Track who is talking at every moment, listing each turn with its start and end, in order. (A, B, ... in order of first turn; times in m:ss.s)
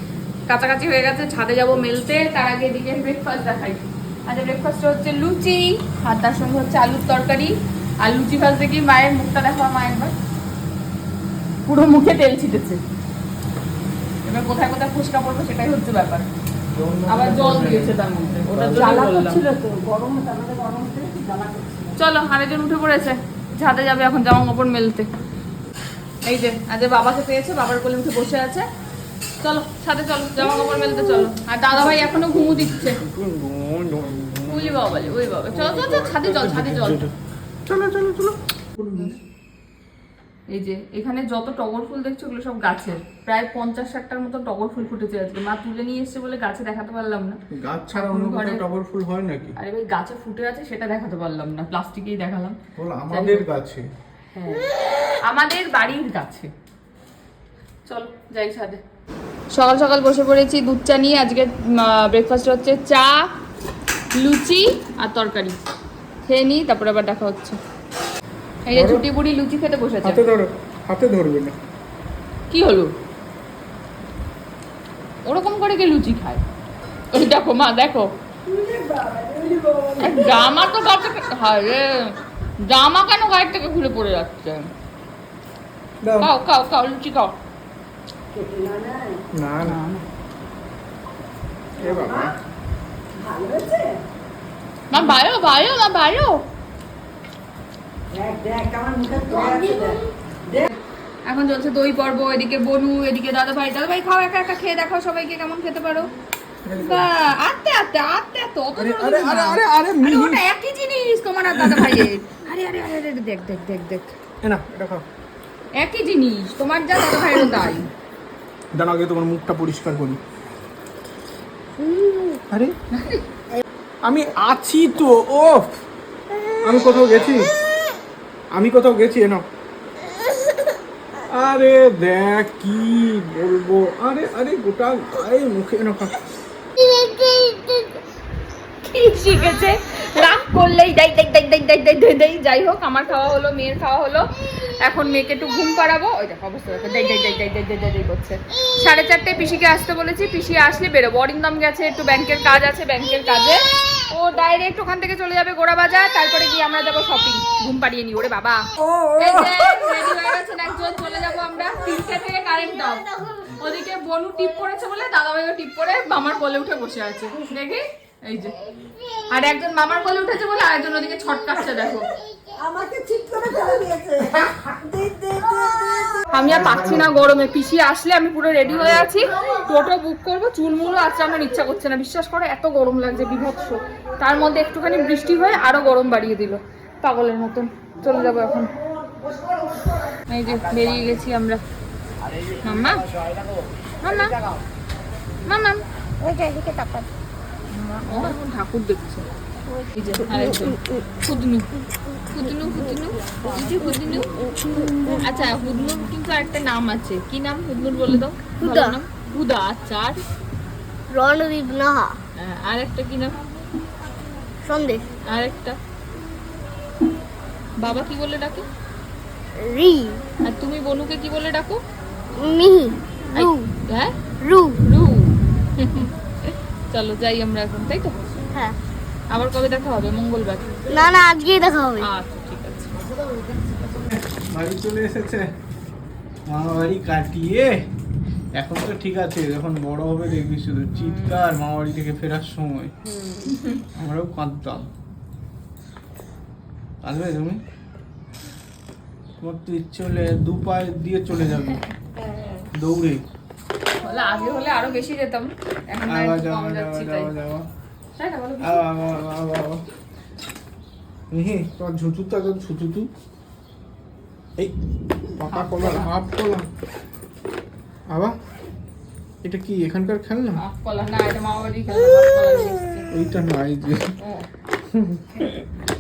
0:00.5-0:10.1 A
0:11.7-0:12.8 A
0:14.2-0:16.3 A
0:16.8-0:19.0 B
0:17.1-0:19.4 A
0:18.5-0:21.9 C
0:22.0-0:25.1 A
0:26.2-0:28.7 A
0:29.4-0:33.0 A
0:31.8-0:37.1 B
0:34.5-0:37.1 A
0:37.7-0:39.2 B
0:40.5-0:47.4 A
0:47.5-0:49.6 B
0:47.9-0:48.6 A
0:49.6-0:52.6 A
0:52.8-0:53.8 B
0:53.1-0:53.4 A
0:54.4-0:54.7 A
0:55.3-0:56.5 A
0:57.9-0:58.8 A
0:59.5-1:03.3 A
1:04.1-1:05.6 A
1:06.3-1:07.6 A
1:08.7-1:10.3 A
1:08.7-1:09.0 B
1:10.0-1:11.6 B
1:12.5-1:12.9 A
1:15.3-1:16.4 A
1:17.1-1:18.1 A
1:18.5-1:20.3 C
1:20.0-1:24.7 A
1:26.0-1:26.3 B
1:26.2-1:27.4 A
1:28.3-1:29.2 C
1:29.3-1:29.8 B
1:29.6-1:30.0 A
1:31.8-1:32.4 B
1:31.9-1:32.3 C
1:33.2-1:34.0 C
1:34.9-1:36.4 A
1:38.1-1:40.7 C
1:39.2-1:39.9 D
1:41.3-1:46.1 A
1:46.6-1:47.1 B
1:46.8-1:54.2 A
1:48.8-1:50.5 B
1:51.5-1:52.1 B
1:54.4-1:55.0 B
1:55.8-1:57.9 A
1:58.7-2:00.2 B
2:01.8-2:02.4 D
2:02.9-2:03.2 A
2:04.0-2:05.7 B
2:06.6-2:07.5 B
2:08.5-2:09.4 B
2:11.3-2:16.2 B
2:16.8-2:17.9 D
2:18.8-2:24.3 A
2:24.8-2:48.6 A
2:49.3-2:52.1 A
2:52.6-2:56.0 C
2:55.9-2:56.2 D
2:56.3-3:08.7 A
2:56.4-2:57.2 B
3:10.3-3:11.6 A
3:12.6-3:13.1 A
3:14.0-3:14.4 A
3:15.5-3:15.8 A
3:16.2-3:17.1 D
3:17.7-3:19.3 A
3:19.9-3:21.7 A
3:20.2-3:21.0 D
3:22.3-3:24.3 A
3:24.5-3:25.2 D
3:25.1-3:30.2 A
3:28.6-3:29.0 D
3:31.1-3:32.2 D
3:32.4-3:33.4 A
3:34.6-3:35.0 D
3:35.3-3:35.8 A
3:37.8-3:38.7 A
3:39.6-3:40.2 D
3:40.4-3:41.8 A
3:42.4-3:43.7 D
3:43.4-3:44.1 A
3:44.4-3:44.8 D
3:44.8-3:48.2 A
3:49.3-3:50.7 A
3:50.9-3:52.1 D
3:52.0-3:53.0 A
3:54.0-3:55.5 B
3:56.5-3:57.7 B
3:58.6-4:02.9 B
4:01.0-4:01.5 A
4:03.1-4:03.5 D
4:03.4-4:03.8 A
4:03.9-4:04.9 B
4:07.0-4:07.6 B
4:09.4-4:11.8 B
4:12.3-4:12.6 D
4:12.7-4:13.2 B
4:14.0-4:17.3 A
4:16.1-4:17.7 B
4:18.2-4:18.8 A
4:18.6-4:19.8 B
4:21.3-4:23.1 B
4:25.4-4:26.7 B
4:25.5-4:26.1 A
4:29.4-4:30.6 B
4:30.6-4:33.1 A
4:33.1-4:34.1 B
4:34.2-4:34.5 A
4:34.9-4:35.7 B